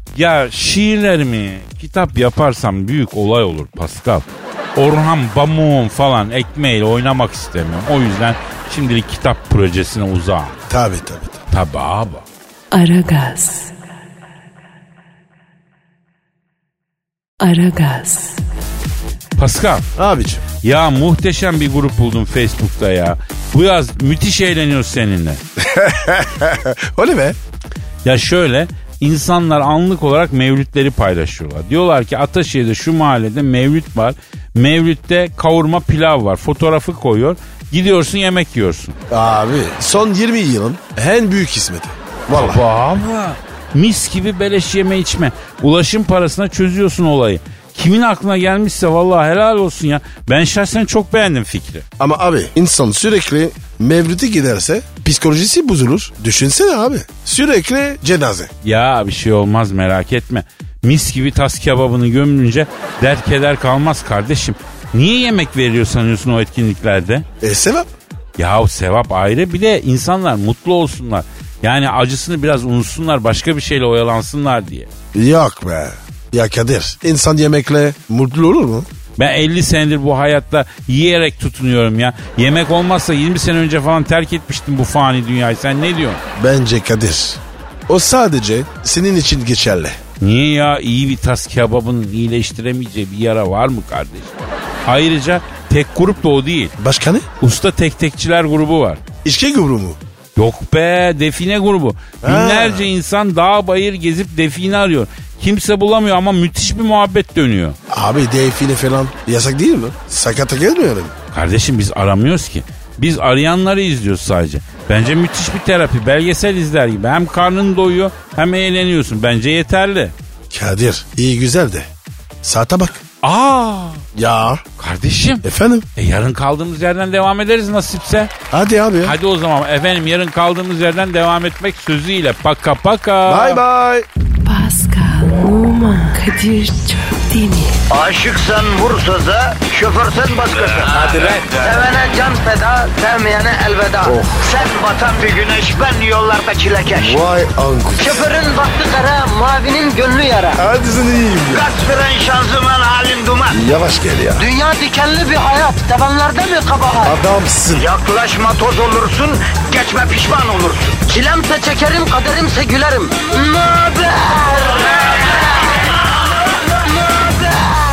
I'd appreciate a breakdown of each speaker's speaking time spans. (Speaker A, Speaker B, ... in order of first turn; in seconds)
Speaker A: 0.1-10.6, 11.5-12.2, 19.4-19.9, 20.6-25.4, 28.0-39.0, 42.3-51.9, 58.6-67.3, 68.4-74.9, 79.2-86.2, 90.2-96.8, 97.4-99.0, 100.4-107.8, 111.3-120.1, 123.2-124.1, 124.8-125.4, 126.0-128.3, 129.0-133.6
Speaker B: 10.7-11.4, 20.0-20.4, 25.6-27.4, 39.1-42.6, 52.0-58.5, 67.4-67.9, 75.1-78.9, 86.4-90.0, 96.8-97.3, 99.2-100.0, 102.2-102.9, 107.9-111.1, 120.5-121.9, 122.4-123.0, 124.2-124.6, 125.4-125.9, 128.5-129.2, 133.2-134.1, 144.1-144.4, 146.9-148.3, 150.6-151.7, 153.5-154.5, 157.0-157.9
Speaker C: 12.7-13.7, 17.4-18.4, 134.4-137.8
Speaker D: 137.9-147.3, 148.0-150.5, 151.5-153.7, 154.4-157.1, 157.8-165.2, 167.1-167.7